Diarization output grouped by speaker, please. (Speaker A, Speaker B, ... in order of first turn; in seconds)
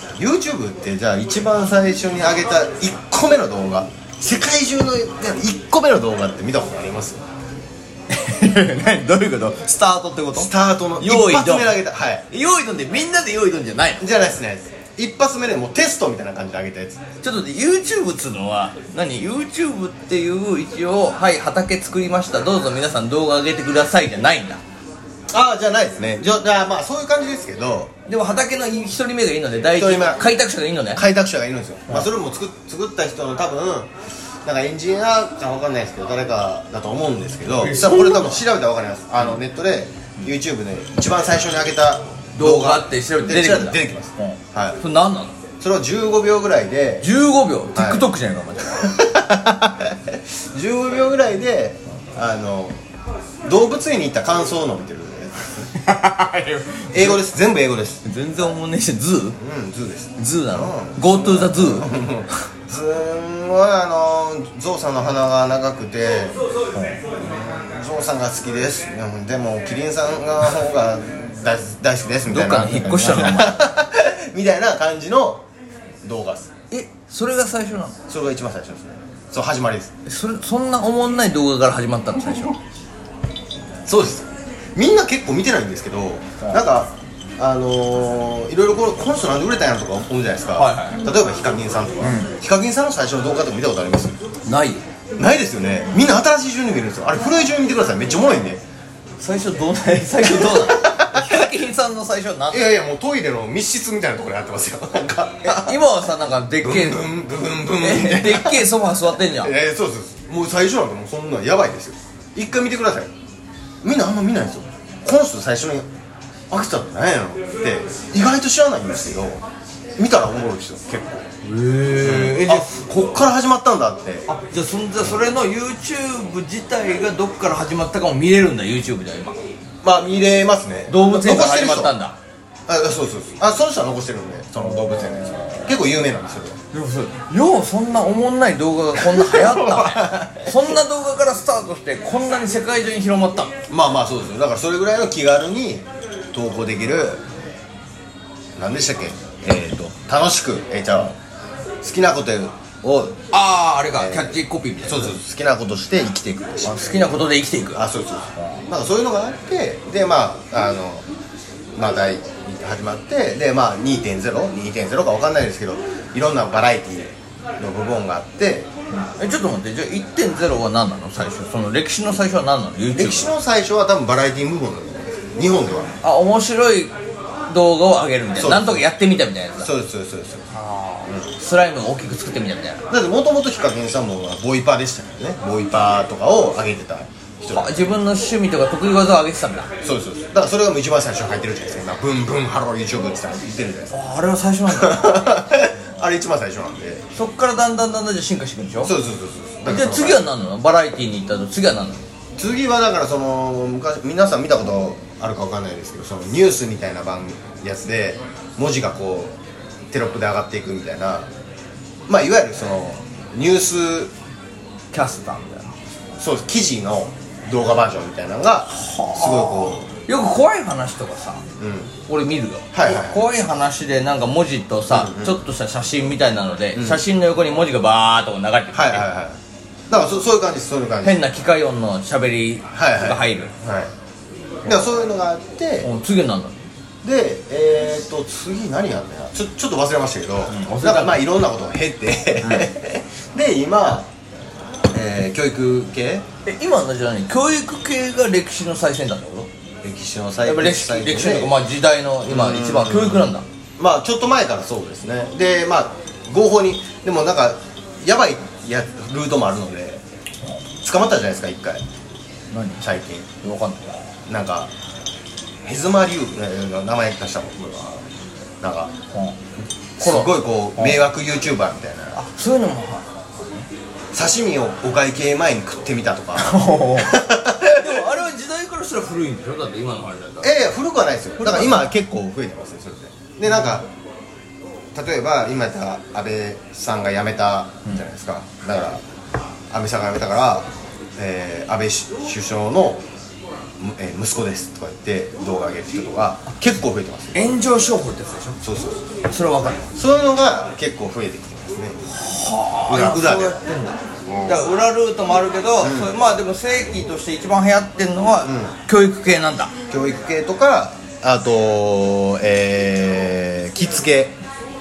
Speaker A: 0.2-7.2, 10.3-12.2, 14.0-17.0, 25.3-27.9, 29.7-30.3, 30.9-33.9, 34.4-44.8, 45.6-47.1, 47.7-48.1, 48.8-52.8, 53.4-55.5, 56.9-58.0, 59.4-66.4, 67.1-75.4, 76.0-76.5, 78.1-79.9, 83.8-94.2, 95.2-98.6, 100.2-101.5, 102.5-105.8, 106.6-113.1, 113.8-115.9, 116.5-119.4, 120.0-121.2, 122.0-124.3, 129.8-131.9, 132.7-136.6, 138.9-140.8, 143.7-147.2, 148.6-151.2, 151.8-153.2, 153.9-157.1, 157.7-161.1, 161.7-168.7, 172.9-175.9, 178.3-178.8, 179.6-180.4, 181.0-181.3, 182.9-187.9, 189.8-193.9, 194.7-197.0, 198.8-200.3, 202.4-209.3, 209.9-211.3, 212.1-214.1, 216.2-219.9, 221.6-221.9, 222.7-223.3, 224.9-225.4, 226.7-227.0, 228.7-229.4, 229.9-231.2, 232.7-233.9, 234.6-235.9, 237.0-244.1, 244.9-246.2, 249.8-251.6, 252.3-260.0, 260.8-261.8, 262.8-263.3, 264.3-264.7, 265.6-268.0, 268.6-268.9, 270.0-272.2, 274.1-278.0, 280.4-283.9, 284.9-289.0, 289.7-293.0, 293.8-297.6, 298.6-299.0, 299.9-302.0, 302.9-303.6, 304.3-304.7, 305.8-306.1, 308.4-308.7, 309.9-314.4
Speaker B: 8.1-14.1, 17.2-24.6, 28.1-31.1, 37.6-38.4, 42.4-45.3, 47.0-48.9, 55.7-57.2, 58.0-59.4, 60.2-62.0, 66.7-67.0, 72.3-73.8, 76.7-78.0, 80.0-82.6, 90.5-91.0, 92.0-92.3, 94.5-94.8, 99.2-102.7, 105.4-107.1, 107.8-109.5, 121.4-123.0, 124.3-129.4, 130.9-132.2, 134.6-135.7, 136.7-143.5, 153.3-155.2, 156.6-157.8, 169.0-173.3, 176.0-176.9, 177.5-179.7, 180.5-182.9, 187.5-189.7, 193.9-195.4, 197.1-198.9, 199.6-202.0, 214.9-215.7, 218.7-221.4, 222.1-229.1, 231.0-233.5, 235.8-236.6, 240.5-241.2, 242.4-242.7, 246.4-249.5, 250.4-253.4, 262.5-262.8, 263.4-264.1, 270.0-271.0, 272.1-273.7, 276.4-280.5, 281.4-281.9, 283.5-283.8, 297.3-298.6, 299.2-299.9, 302.1-309.7